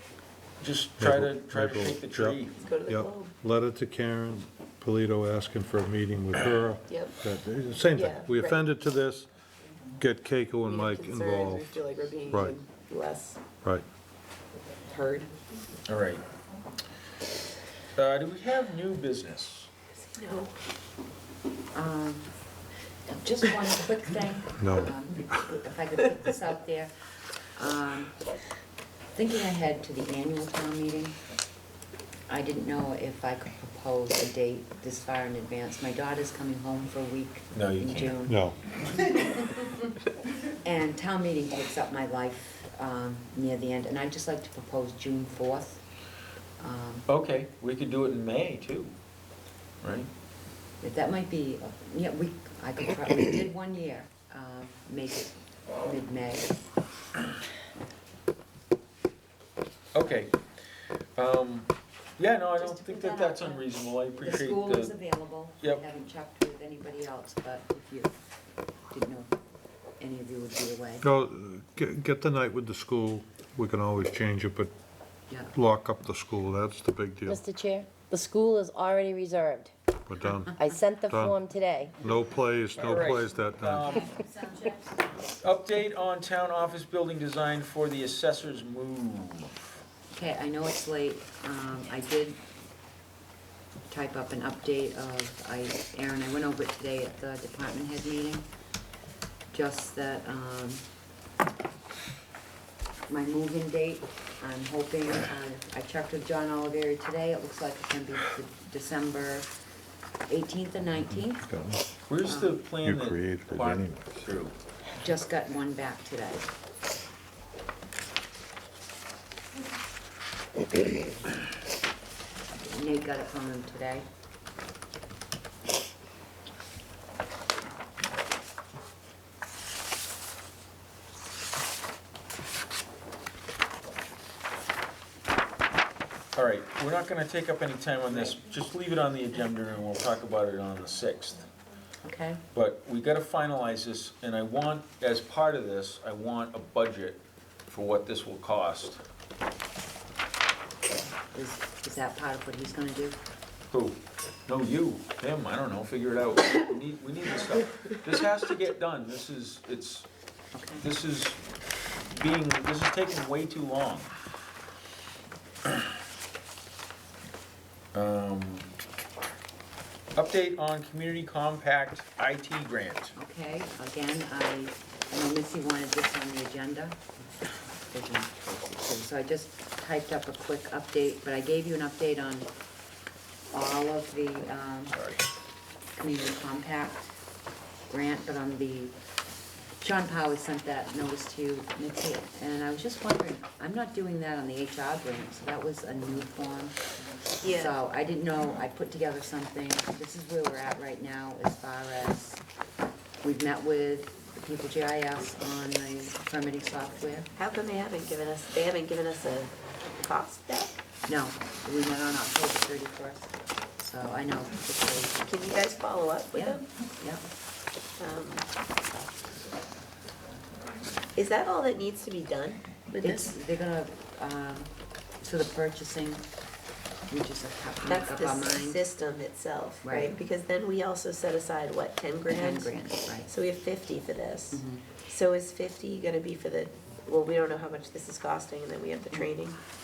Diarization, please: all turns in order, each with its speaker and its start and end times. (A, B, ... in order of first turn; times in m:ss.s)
0:00.6-0:02.6 A
0:01.0-0:09.3 B
0:02.6-0:03.3 C
0:06.9-0:07.2 C
0:07.9-0:08.6 C
0:10.0-0:11.7 B
0:10.6-0:13.4 C
0:12.3-0:12.6 B
0:14.8-0:15.3 C
0:15.9-0:16.2 A
0:18.0-0:19.7 A
0:20.0-0:20.6 C
0:21.7-0:22.3 D
0:23.1-0:26.9 D
0:24.6-0:24.9 B
0:27.6-0:28.1 D
0:29.1-0:31.2 D
0:32.3-0:38.4 D
0:37.5-0:38.2 A
0:38.3-0:38.6 B
0:40.6-0:45.8 D
0:46.6-0:47.0 D
0:47.1-0:49.0 A
0:49.8-0:50.1 A
0:50.8-0:56.6 D
0:59.9-1:00.3 A
1:01.2-1:04.9 A
1:02.6-1:03.7 D
1:04.2-1:08.1 D
1:08.9-1:09.3 D
1:10.0-1:11.0 D
1:11.0-1:14.7 B
1:15.3-1:15.5 D
1:15.5-1:17.4 B
1:17.3-1:19.7 E
1:20.1-1:20.5 B
1:20.5-1:21.9 E
1:21.1-1:21.4 B
1:22.0-1:24.0 B
1:22.8-1:24.1 A
1:25.3-1:29.7 A
1:30.1-1:32.4 D
1:33.9-1:38.5 D
1:39.5-1:40.8 D
1:43.1-1:49.5 D
1:50.3-1:51.4 D
1:51.0-1:51.8 B
1:52.1-1:54.5 A
1:52.2-1:52.6 D
1:52.8-1:54.2 B
1:55.0-1:56.5 D
2:02.6-2:04.0 D
2:16.3-2:21.5 A
2:22.0-2:22.4 D
2:22.5-2:29.0 A
2:31.3-2:33.2 D
2:33.7-2:40.1 A
2:40.5-2:40.9 D
2:40.8-2:41.4 A
2:42.1-2:44.1 A
2:47.9-2:48.7 A
2:50.2-2:53.1 A
2:53.2-2:57.0 D
2:57.7-3:02.5 D
3:03.5-3:05.0 D
3:04.9-3:05.2 A
3:06.0-3:07.1 D
3:07.9-3:08.9 D
3:09.8-3:16.7 D
3:17.4-3:17.8 C
3:17.4-3:22.4 D
3:23.2-3:27.3 D
3:27.4-3:30.7 C
3:31.0-3:35.2 D
3:35.2-3:36.6 C
3:36.3-3:37.2 D
3:38.0-3:38.4 C
3:41.2-3:43.3 C
3:43.0-3:44.7 D
3:45.2-3:46.3 D
3:47.1-3:48.8 D
3:47.8-3:59.6 C
3:49.8-3:50.2 D
3:52.3-3:53.3 D
3:54.5-3:54.8 D